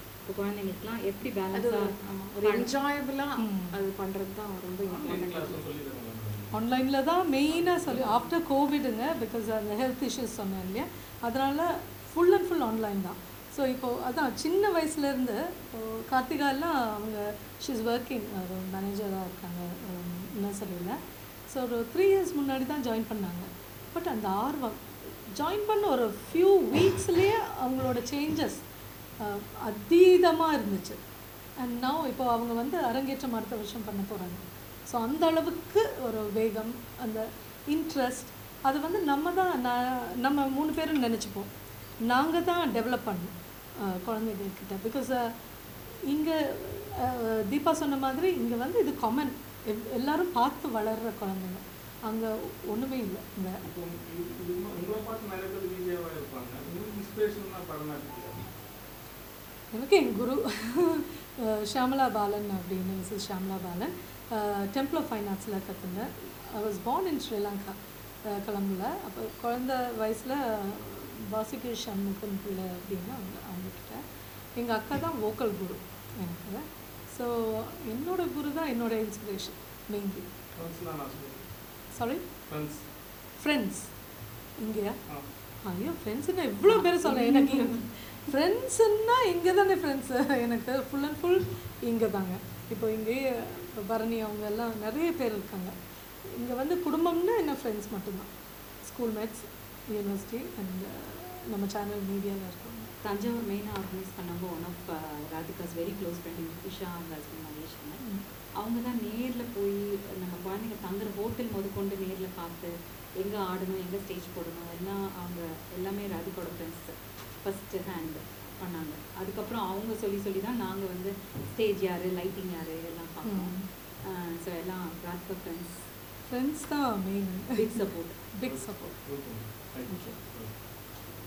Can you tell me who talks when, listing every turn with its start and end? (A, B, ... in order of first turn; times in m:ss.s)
0:00.2-0:02.7 A
0:01.5-0:05.6 B
0:03.4-0:03.8 C
0:04.9-0:06.6 D
0:06.5-0:21.0 C
0:07.5-0:08.2 D
0:21.5-0:28.6 C
0:29.2-0:31.0 C
0:31.6-0:41.5 C
0:42.1-0:45.3 C
0:46.1-0:53.6 C
0:53.6-0:58.5 D
0:59.7-1:14.0 C
1:14.6-1:20.2 C
1:20.6-1:21.9 D
1:21.9-1:22.2 C
1:22.5-1:22.8 D
1:23.4-1:23.9 C
1:24.6-1:25.0 C
1:25.6-1:38.3 C
1:26.7-1:27.7 A
1:38.8-1:42.9 C
1:43.0-1:48.0 A
1:48.6-2:05.8 A
2:03.2-2:03.7 C
2:06.3-2:07.7 C
2:07.5-2:08.2 A
2:08.3-2:09.0 C
2:08.4-2:10.6 D
2:09.9-2:10.2 C